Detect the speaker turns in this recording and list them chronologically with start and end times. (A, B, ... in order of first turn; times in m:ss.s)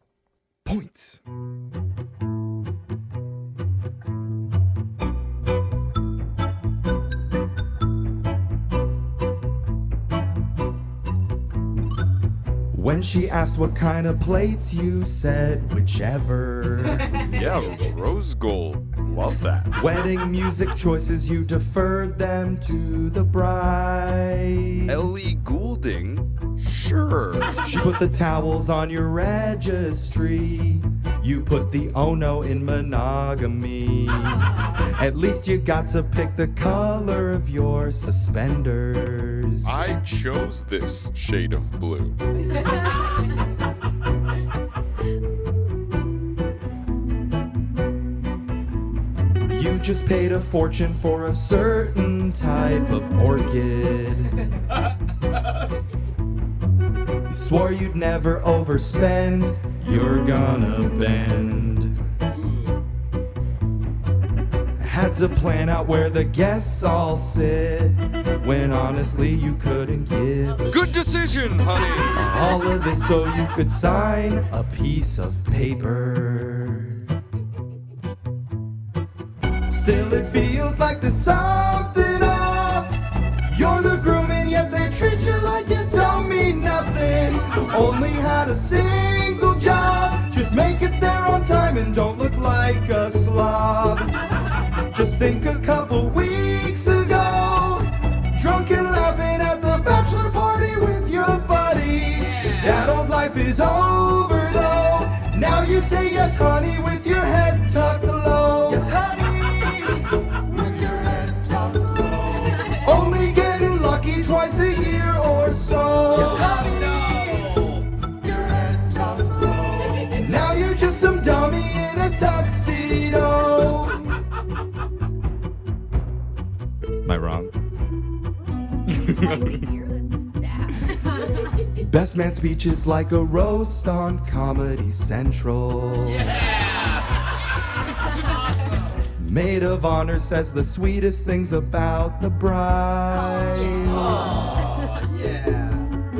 0:00.6-0:01.2 A
0:12.7-0:17.2 A
0:17.2-0:19.8 B
0:19.7-0:25.0 A
0:24.9-0:27.6 B
0:27.6-0:39.9 A
0:39.6-0:42.2 B
0:49.5-0:54.4 A
0:57.3-1:02.0 A
1:04.8-1:11.0 A
1:10.7-1:12.6 B
1:12.1-1:17.0 A
1:19.7-1:34.2 A
1:34.9-1:57.5 A
1:42.1-1:42.9 B
1:56.1-1:57.8 B
1:58.2-2:04.1 A
2:07.0-2:07.5 A
2:08.8-2:11.0 C
2:08.9-2:09.6 A
2:11.7-2:16.5 A
2:16.1-2:17.0 B
2:18.1-2:19.0 B
2:19.1-2:24.3 A
2:23.8-2:25.9 B
2:23.9-2:24.3 C